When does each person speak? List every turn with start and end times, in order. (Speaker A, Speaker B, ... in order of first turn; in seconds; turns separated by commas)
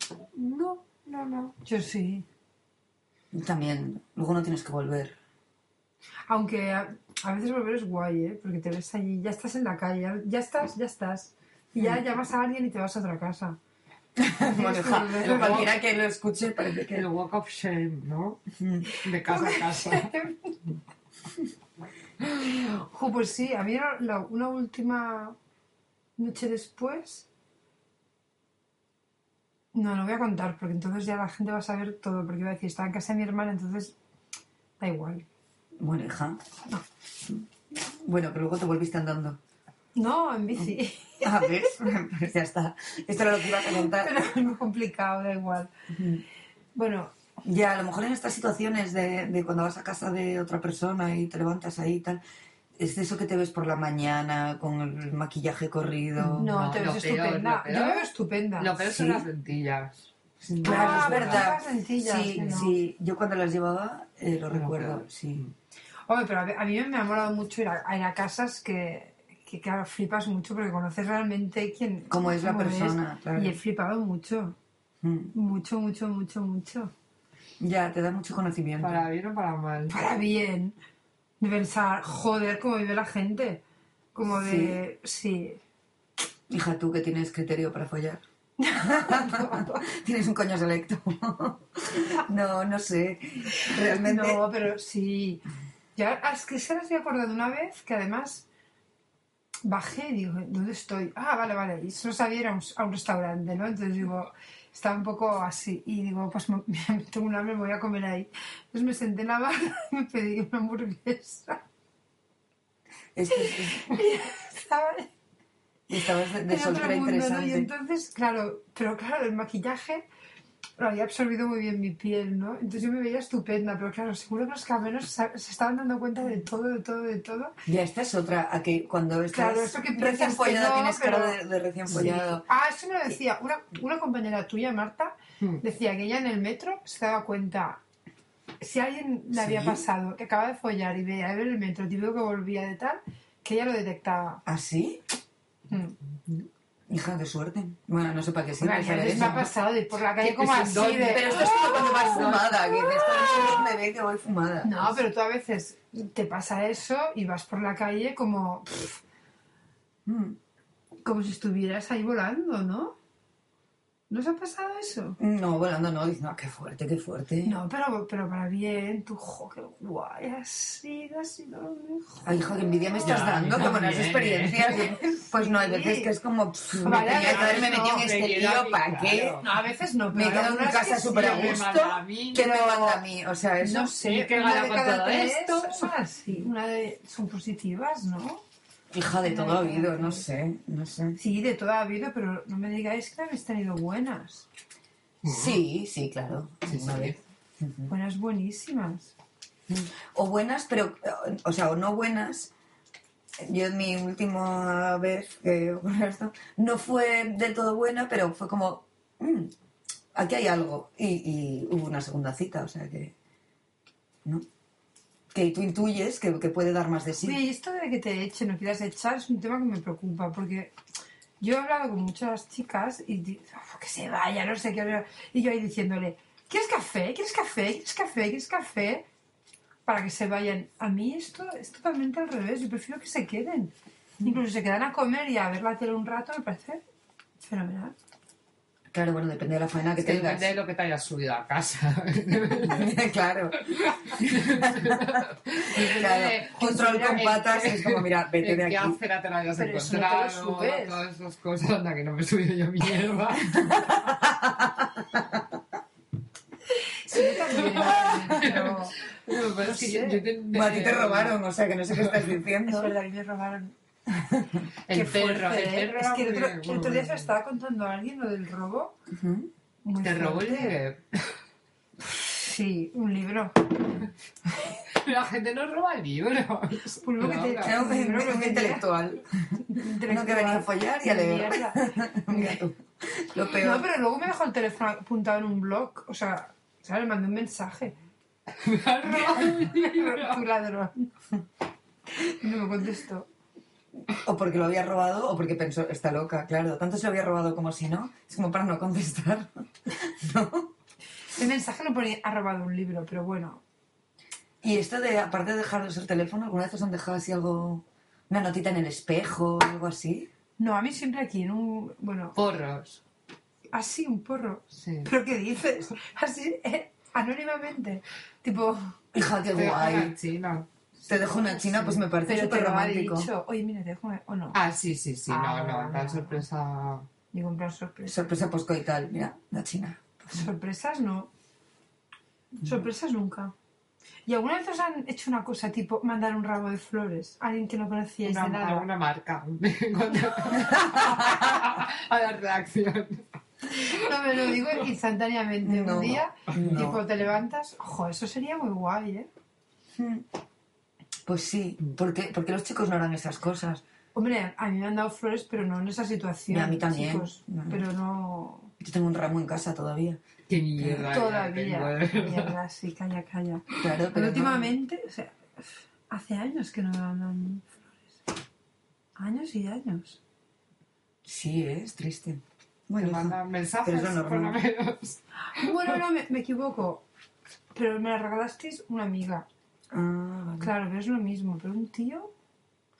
Speaker A: 0.4-1.5, Speaker B: 1.6-2.2, Speaker C: 3.3-5.2, Speaker B: 6.3-13.6, Speaker C: 11.7-12.0, Speaker C: 14.2-17.1, Speaker B: 14.4-15.7, Speaker A: 15.2-15.8, Speaker A: 16.9-18.4, Speaker C: 18.6-18.9, Speaker A: 19.0-20.1, Speaker B: 19.3-20.5, Speaker B: 22.4-25.4, Speaker B: 26.2-27.2, Speaker B: 29.7-33.9, Speaker B: 34.8-35.2, Speaker C: 35.8-36.4, Speaker C: 37.3-39.4, Speaker B: 39.9-41.7, Speaker C: 41.2-44.2, Speaker B: 43.7-45.7, Speaker C: 45.9-46.2, Speaker B: 46.7-47.1, Speaker C: 47.4-52.2, Speaker C: 52.8-56.6, Speaker A: 56.2-61.5, Speaker B: 56.4-59.0, Speaker C: 60.5-65.4, Speaker B: 60.6-62.7, Speaker A: 64.5-65.5, Speaker B: 66.1-74.5, Speaker C: 72.1-73.6, Speaker C: 75.0-75.3, Speaker B: 75.3-76.9, Speaker C: 77.6-79.0, Speaker A: 78.8-80.0, Speaker B: 79.9-80.7, Speaker B: 81.4-83.6, Speaker B: 84.1-85.6, Speaker C: 84.3-84.8, Speaker C: 86.5-88.2, Speaker B: 88.6-89.8, Speaker C: 88.8-94.4, Speaker B: 93.6-95.4, Speaker B: 96.0-98.4, Speaker B: 99.6-111.6, Speaker C: 113.1-114.1, Speaker B: 113.3-115.1, Speaker C: 115.9-117.7, Speaker B: 116.5-120.0, Speaker B: 120.8-127.5, Speaker C: 127.7-132.4, Speaker B: 129.3-131.4, Speaker B: 131.9-137.8, Speaker B: 138.6-144.4, Speaker C: 139.3-139.8, Speaker C: 144.4-145.0, Speaker C: 146.9-149.5, Speaker B: 148.6-152.2, Speaker A: 149.0-149.5, Speaker A: 150.2-152.4, Speaker C: 150.7-155.0, Speaker B: 154.6-159.0, Speaker C: 160.1-160.4, Speaker B: 161.0-162.9, Speaker B: 164.1-165.2, Speaker C: 165.2-167.6, Speaker B: 167.4-173.2, Speaker C: 172.2-179.4, Speaker A: 173.0-174.8, Speaker B: 175.3-176.1, Speaker B: 176.8-178.0, Speaker A: 176.9-179.5, Speaker B: 179.4-181.6, Speaker C: 180.1-183.9, Speaker A: 181.1-183.0, Speaker B: 183.6-188.4, Speaker A: 184.0-185.9, Speaker C: 188.9-191.2, Speaker B: 189.2-190.2, Speaker B: 191.2-194.4, Speaker A: 195.2-195.6, Speaker C: 195.2-197.9, Speaker A: 196.7-197.2, Speaker B: 197.9-199.1, Speaker C: 199.7-202.5, Speaker C: 203.4-209.5, Speaker C: 210.1-213.1, Speaker C: 215.3-217.4, Speaker B: 217.2-220.7, Speaker B: 221.4-229.0, Speaker B: 229.8-236.8, Speaker B: 237.4-237.9, Speaker C: 238.9-240.6, Speaker A: 240.0-242.9, Speaker C: 242.6-245.1, Speaker A: 243.7-253.8, Speaker C: 245.8-249.0, Speaker B: 246.6-247.2, Speaker B: 249.6-251.0, Speaker C: 253.5-255.4, Speaker B: 257.1-258.7, Speaker A: 257.2-261.4, Speaker C: 257.7-258.9, Speaker B: 259.6-260.3, Speaker C: 260.5-262.9, Speaker B: 262.6-263.7, Speaker C: 264.1-264.6, Speaker A: 264.9-267.3, Speaker B: 264.9-268.9, Speaker C: 269.1-269.5, Speaker B: 269.8-270.7, Speaker A: 270.0-271.0, Speaker B: 272.0-273.8, Speaker A: 274.9-277.7, Speaker B: 277.0-278.9, Speaker C: 277.5-279.2, Speaker B: 279.6-282.6, Speaker C: 280.0-283.9, Speaker B: 283.6-287.9, Speaker A: 288.6-290.4, Speaker B: 289.9-291.1, Speaker B: 292.1-293.3, Speaker C: 294.1-300.7, Speaker B: 301.3-303.6, Speaker C: 304.6-310.3, Speaker B: 310.6-312.4, Speaker A: 312.3-313.0, Speaker B: 313.7-318.9, Speaker A: 314.8-315.1, Speaker C: 319.1-320.1, Speaker A: 319.5-320.7, Speaker C: 321.1-323.3, Speaker B: 321.1-324.6, Speaker A: 324.5-327.1, Speaker B: 325.3-326.4, Speaker B: 327.3-328.2, Speaker C: 328.0-330.5, Speaker B: 330.3-331.3, Speaker B: 332.6-333.5, Speaker B: 334.2-338.9, Speaker A: 338.2-343.2, Speaker C: 340.6-341.4, Speaker B: 343.7-349.3, Speaker A: 343.8-344.7, Speaker C: 345.6-347.0, Speaker C: 349.9-350.2, Speaker C: 351.2-353.8, Speaker B: 354.1-358.7, Speaker C: 356.5-357.8, Speaker C: 358.8-360.2, Speaker A: 360.5-362.5, Speaker C: 360.8-361.1, Speaker B: 361.1-368.2, Speaker C: 363.8-364.7, Speaker B: 369.1-370.2, Speaker C: 371.2-374.6, Speaker A: 373.0-375.7, Speaker B: 375.5-377.0, Speaker B: 377.7-379.4, Speaker C: 379.9-380.7, Speaker B: 380.6-382.3